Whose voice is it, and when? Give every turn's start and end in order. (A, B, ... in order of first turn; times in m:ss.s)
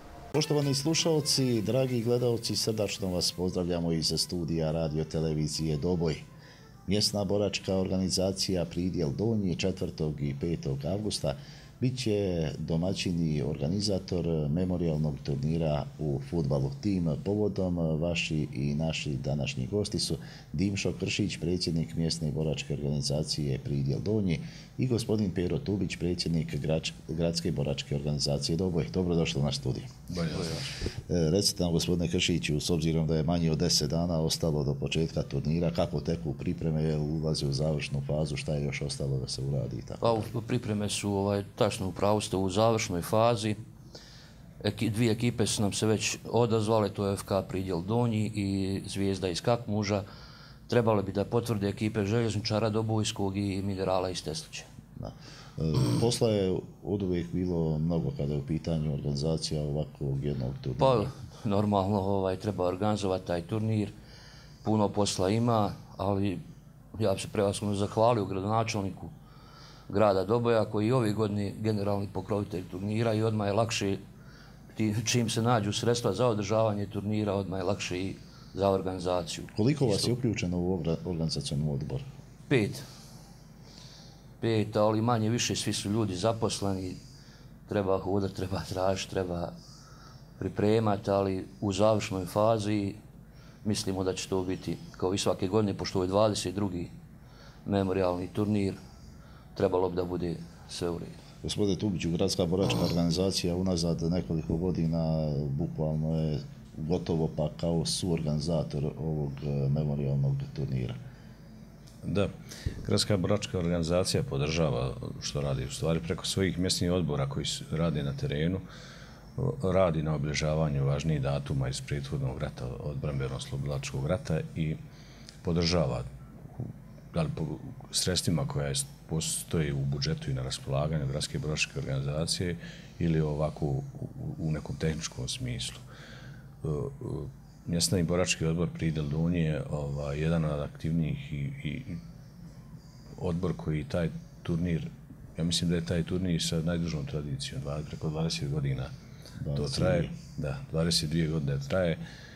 0:00.3-0:06.2 A
0:06.9-0:29.9 A
0:30.1-0:30.4 B
0:30.3-0:30.7 C
0:31.1-0:40.3 A
0:40.0-0:43.6 C
0:44.6-0:50.0 C
0:50.7-0:54.7 C
0:55.0-1:01.1 A
1:00.8-1:03.9 C
1:04.6-1:06.4 C
1:07.0-1:09.1 C
1:09.9-1:14.0 C
1:14.7-1:20.1 C
1:19.5-1:22.0 A
1:22.5-1:22.8 C
1:24.4-1:27.0 C
1:27.7-1:29.5 C
1:30.4-1:33.0 C
1:33.6-1:36.9 C
1:37.6-1:38.8 C
1:39.5-1:41.2 C
1:41.4-1:51.0 A
1:52.0-1:52.3 B
1:52.8-1:58.6 B
1:59.4-2:04.8 B
2:05.4-2:06.1 B
2:07.1-2:15.8 B
2:16.6-2:22.0 B
2:23.2-2:28.9 B
2:29.4-2:30.1 A
2:29.5-2:32.0 B